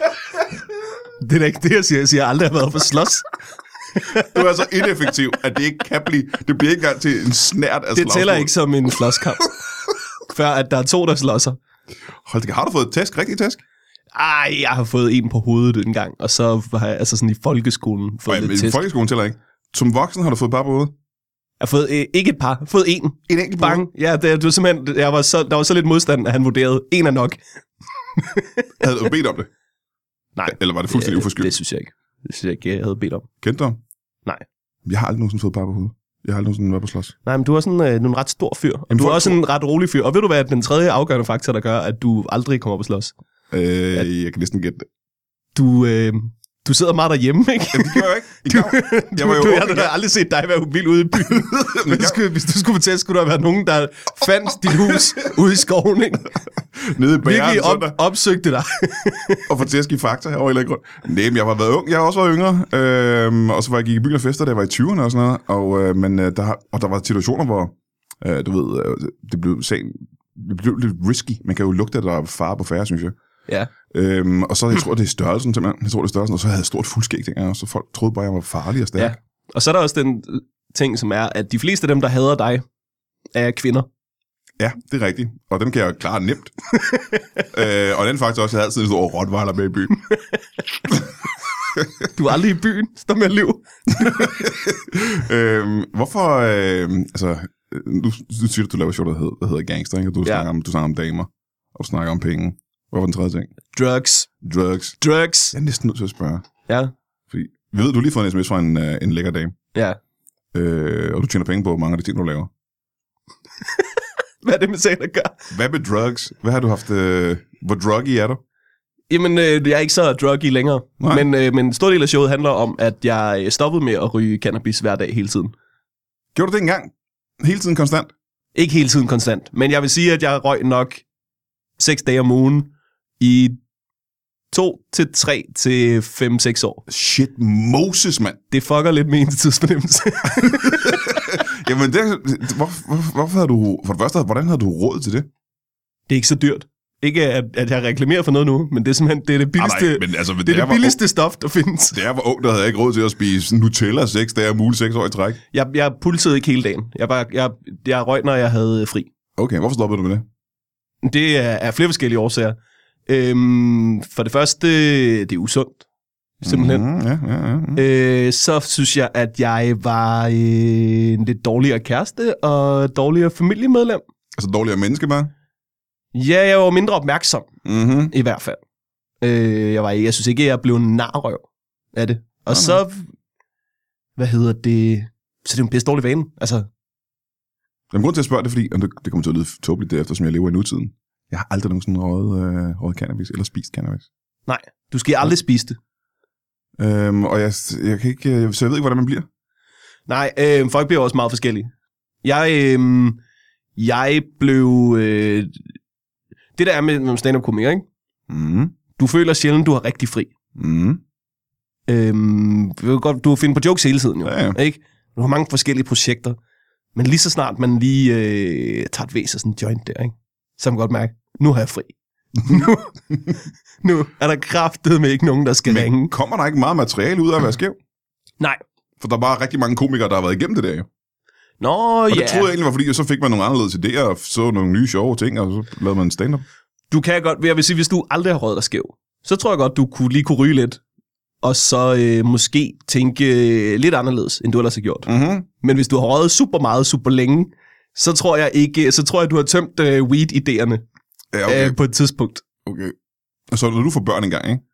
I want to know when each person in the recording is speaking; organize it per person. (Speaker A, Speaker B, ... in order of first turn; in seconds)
Speaker A: 1.2-3.3, 3.9-4.4, 7.9-9.5, 10.3-11.6, 14.1-18.8, 21.6-27.4, 28.1-28.7, 30.4-33.3, 37.2-43.1, 45.5-56.3, 57.2-59.5, 79.0-82.6, 83.3-83.9, 86.8-87.2, 90.1-90.4, 92.1-94.5, 103.7-104.3, 105.0-105.5, 106.7-106.9, 109.7-110.0, 113.7-115.5, 119.1-125.5, 128.5-131.0, 131.8-133.6, 134.5-136.8, 138.5-141.2, 146.1-152.0, 155.5-159.1, 161.0-165.8, 166.4-166.8, 167.8-174.0, 176.1-177.5, 178.1-178.6, 179.2-183.1, 184.2-186.7, 194.5-195.8, 200.1-201.7, 202.2-203.2, 203.8-205.6, 206.6-207.8, 208.9-210.3, 211.9-216.4, 216.9-222.9, 223.8-226.1, 231.6-232.5, 236.9-240.8, 241.4-250.8, 251.4-252.4
Speaker B: 4.2-8.5, 12.2-13.6, 18.3-20.9, 23.3-23.8, 28.8-29.5, 30.4-31.5, 33.4-33.8, 34.9-37.1, 38.9-39.4, 43.5-44.9, 47.7-49.9, 51.2-52.2, 56.8-58.0, 59.5-73.2, 73.9-79.1, 84.6-86.5, 87.5-90.0, 93.9-103.5, 104.4-105.0, 105.5-106.5, 107.3-109.6, 110.5-112.5, 115.5-118.4, 121.0-121.2, 126.3-128.1, 136.9-138.4, 140.4-145.3, 149.6-151.0, 151.9-155.4, 159.4-160.2, 166.4-167.8, 174.3-175.3, 177.6-178.1, 182.5-182.8, 187.9-194.1, 196.8-199.3, 208.3-208.8, 210.6-211.0, 214.2-214.6, 225.7-227.8, 229.0-230.9, 232.1-236.4, 245.1-245.5, 251.3-251.8, 252.6-252.9, 253.5-254.6